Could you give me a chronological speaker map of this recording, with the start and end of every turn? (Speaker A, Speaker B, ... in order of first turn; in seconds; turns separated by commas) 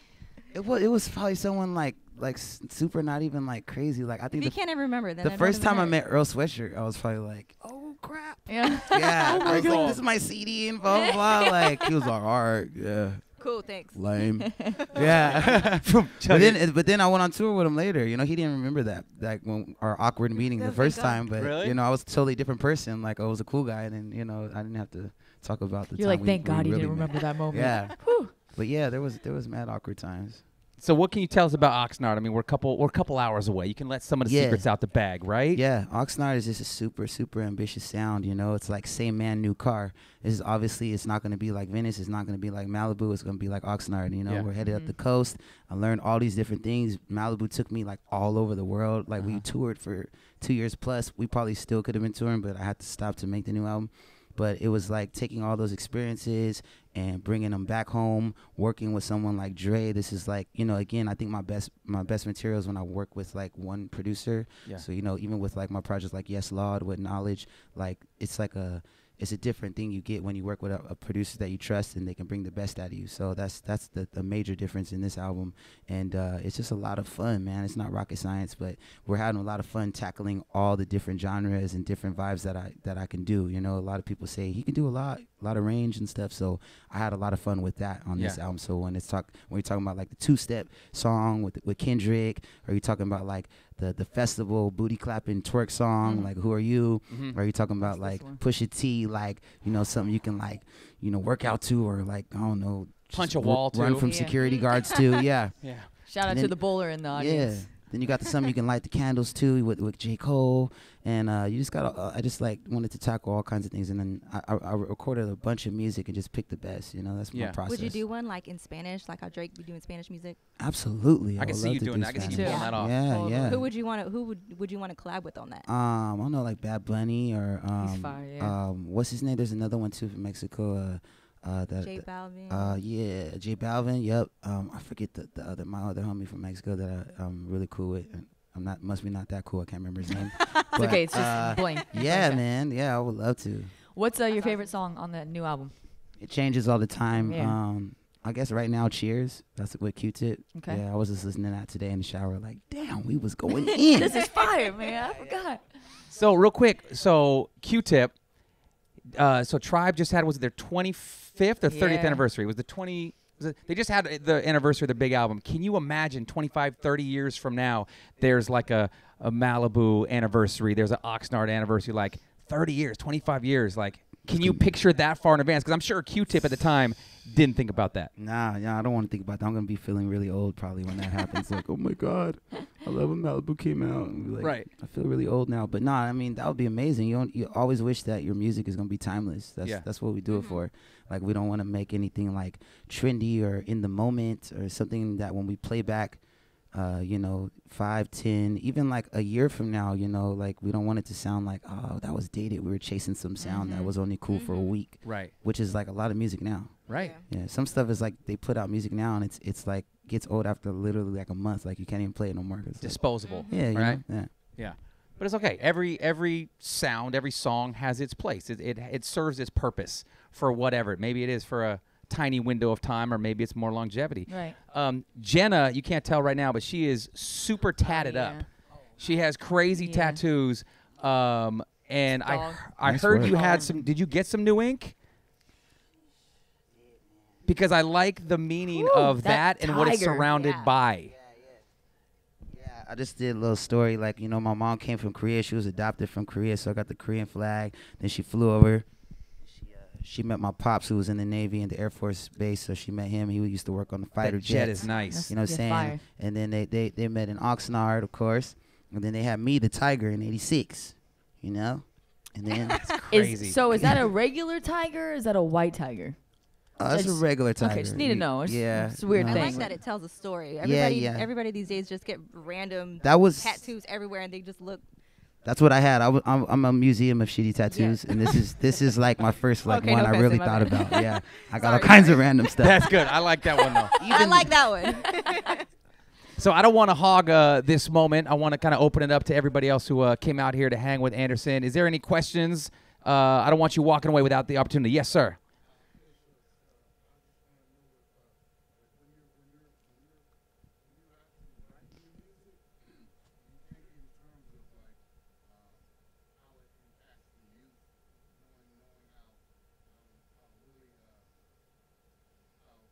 Speaker A: 0.5-4.5, Speaker B: 4.4-5.9, Speaker A: 5.2-13.3, Speaker C: 8.5-9.9, Speaker D: 9.2-10.0, Speaker C: 11.0-11.7, Speaker B: 13.4-15.3, Speaker A: 13.9-30.4, Speaker D: 15.0-16.6, Speaker B: 20.6-21.2, Speaker D: 21.4-21.8, Speaker C: 26.0-28.3, Speaker D: 30.8-35.6, Speaker A: 34.2-34.7, Speaker A: 35.5-118.0, Speaker C: 44.6-44.9, Speaker D: 49.2-49.5, Speaker C: 96.0-96.3, Speaker D: 97.1-97.3, Speaker C: 97.8-98.4, Speaker D: 103.1-104.1, Speaker C: 104.0-104.3, Speaker B: 104.4-105.1, Speaker D: 105.6-105.9, Speaker C: 106.0-107.7, Speaker D: 117.3-117.6, Speaker B: 117.7-120.4, Speaker A: 120.6-123.7, Speaker D: 121.4-122.9, Speaker C: 122.2-123.6, Speaker B: 122.4-122.7, Speaker B: 123.3-125.7, Speaker A: 125.7-143.7, Speaker C: 127.8-128.5, Speaker B: 131.8-132.8, Speaker C: 140.5-142.4, Speaker B: 141.3-141.8, Speaker C: 143.9-145.7, Speaker B: 144.3-144.7, Speaker A: 146.2-154.2, Speaker C: 147.2-147.6, Speaker C: 150.5-150.8, Speaker C: 153.5-155.7, Speaker D: 156.1-158.2, Speaker D: 159.1-178.1, Speaker C: 161.7-162.2, Speaker A: 174.3-174.7, Speaker A: 178.2-196.2, Speaker D: 184.4-184.7, Speaker B: 190.3-190.6, Speaker A: 196.7-214.3, Speaker C: 203.4-203.9, Speaker B: 203.6-204.8, Speaker D: 205.0-205.3, Speaker D: 206.9-207.1, Speaker B: 206.9-207.2, Speaker D: 212.8-234.9, Speaker B: 213.2-213.6, Speaker C: 224.3-224.6, Speaker C: 227.8-228.5, Speaker C: 229.8-230.2, Speaker C: 232.1-232.6, Speaker A: 232.8-233.4, Speaker C: 233.1-233.8, Speaker D: 237.4-241.1, Speaker C: 238.7-240.7, Speaker A: 241.2-241.6, Speaker A: 242.5-248.9, Speaker A: 249.5-262.8, Speaker D: 254.2-255.3, Speaker C: 255.1-256.0, Speaker B: 262.5-262.9, Speaker D: 262.8-263.9, Speaker C: 263.1-266.2, Speaker A: 266.8-269.7, Speaker C: 266.9-269.7, Speaker B: 269.2-274.8, Speaker A: 270.6-271.3, Speaker A: 273.0-273.6, Speaker A: 275.4-282.9, Speaker B: 277.7-278.5, Speaker B: 279.6-283.0, Speaker D: 282.6-283.9, Speaker B: 283.6-285.6, Speaker A: 284.0-284.6, Speaker D: 286.4-295.4